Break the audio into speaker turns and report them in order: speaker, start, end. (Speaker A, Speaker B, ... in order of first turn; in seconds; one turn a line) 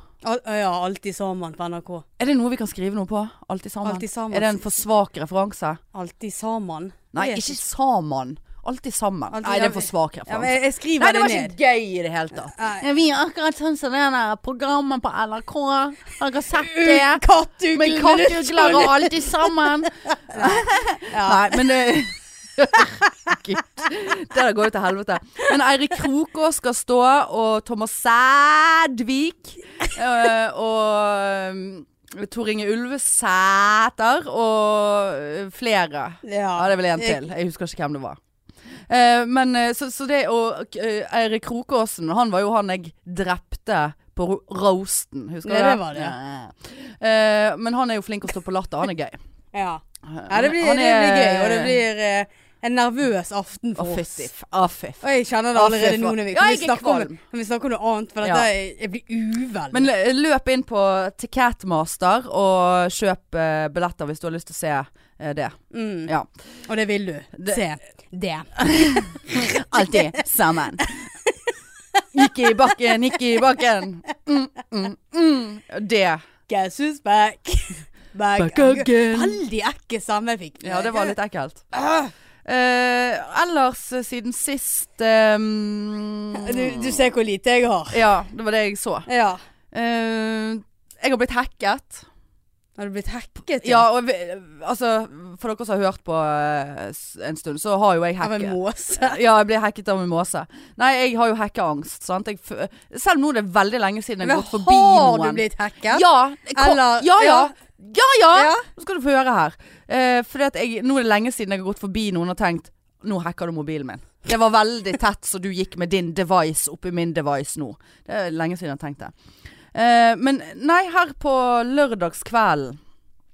Speaker A: 0.2-2.0
Speaker B: 2.2-5.8
Speaker A: 3.8-4.6
Speaker A: 5.9-7.6
Speaker B: 7.1-17.2
Speaker A: 9.3-11.6
Speaker A: 12.5-12.9
Speaker A: 16.5-21.6
Speaker B: 17.7-38.2
Speaker A: 36.2-37.2
Speaker B: 38.9-49.2
Speaker A: 45.4-46.1
Speaker A: 49.5-54.3
Speaker B: 50.1-51.8
Speaker B: 53.8-55.0
Speaker A: 55.0-59.9
Speaker B: 55.5-57.2
Speaker B: 58.2-58.5
Speaker B: 59.7-66.3
Speaker A: 65.7-66.1
Speaker A: 66.7-70.1
Speaker B: 68.6-70.9
Speaker A: 70.8-73.1
Speaker B: 72.1-76.2
Speaker A: 76.5-81.1
Speaker B: 78.4-79.4
Speaker B: 80.6-81.7
Speaker A: 81.7-82.1
Speaker B: 82.4-87.0
Speaker A: 86.3-88.0
Speaker B: 87.9-89.1
Speaker A: 89.1-89.4
Speaker B: 89.7-92.0
Speaker A: 92.8-93.8
Speaker B: 93.6-119.1
Speaker A: 98.2-99.2
Speaker A: 104.2-107.5
Speaker A: 108.3-108.7
Speaker B: 119.7-122.8